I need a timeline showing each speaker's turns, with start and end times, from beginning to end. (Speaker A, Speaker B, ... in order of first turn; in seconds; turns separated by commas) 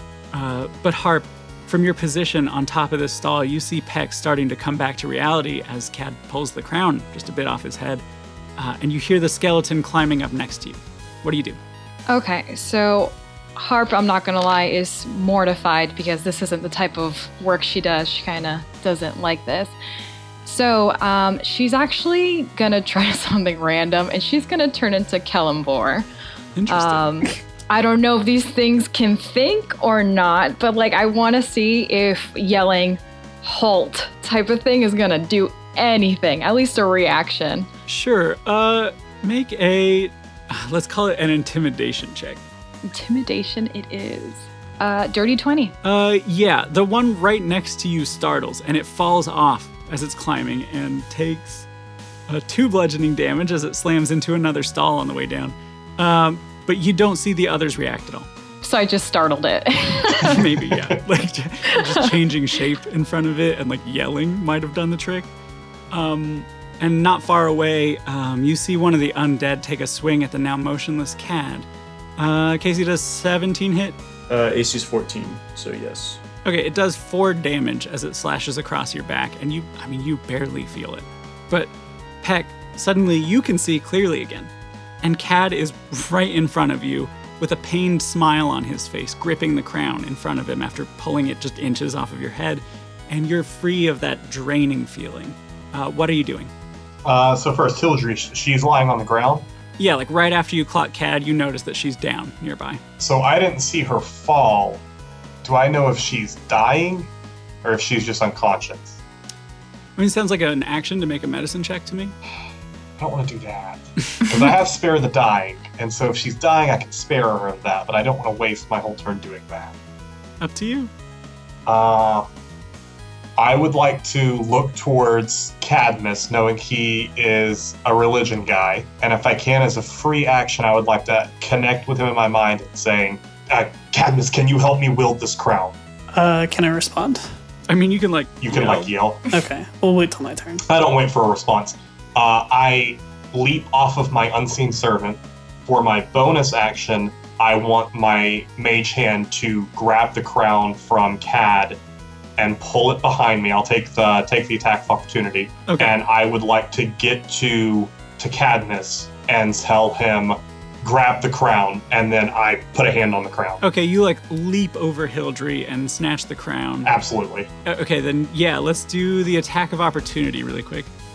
Speaker A: 0.3-8.0, Speaker A: 8.6-11.6, Speaker B: 12.1-19.7, Speaker B: 20.4-26.1, Speaker A: 26.6-27.3, Speaker B: 26.7-37.7, Speaker A: 37.9-42.4, Speaker B: 42.9-45.8, Speaker A: 45.8-51.7, Speaker A: 52.3-58.3, Speaker B: 58.6-60.5, Speaker A: 60.1-65.3, Speaker B: 61.7-62.1, Speaker A: 65.9-74.0, Speaker C: 74.3-76.2, Speaker A: 76.5-84.5, Speaker A: 85.0-96.5, Speaker D: 97.0-99.5, Speaker A: 99.8-102.8, Speaker D: 103.0-104.8, Speaker D: 105.4-107.1, Speaker D: 107.6-109.0, Speaker A: 110.0-112.2, Speaker D: 113.0-119.7, Speaker A: 120.4-120.9, Speaker D: 121.7-122.3, Speaker D: 123.4-135.8, Speaker E: 136.1-137.2, Speaker A: 137.7-138.9, Speaker D: 138.4-139.3, Speaker E: 139.3-140.6, Speaker D: 140.7-151.8, Speaker D: 152.4-163.6, Speaker A: 155.7-156.0, Speaker A: 163.6-166.9, Speaker D: 166.8-167.5, Speaker A: 167.7-170.9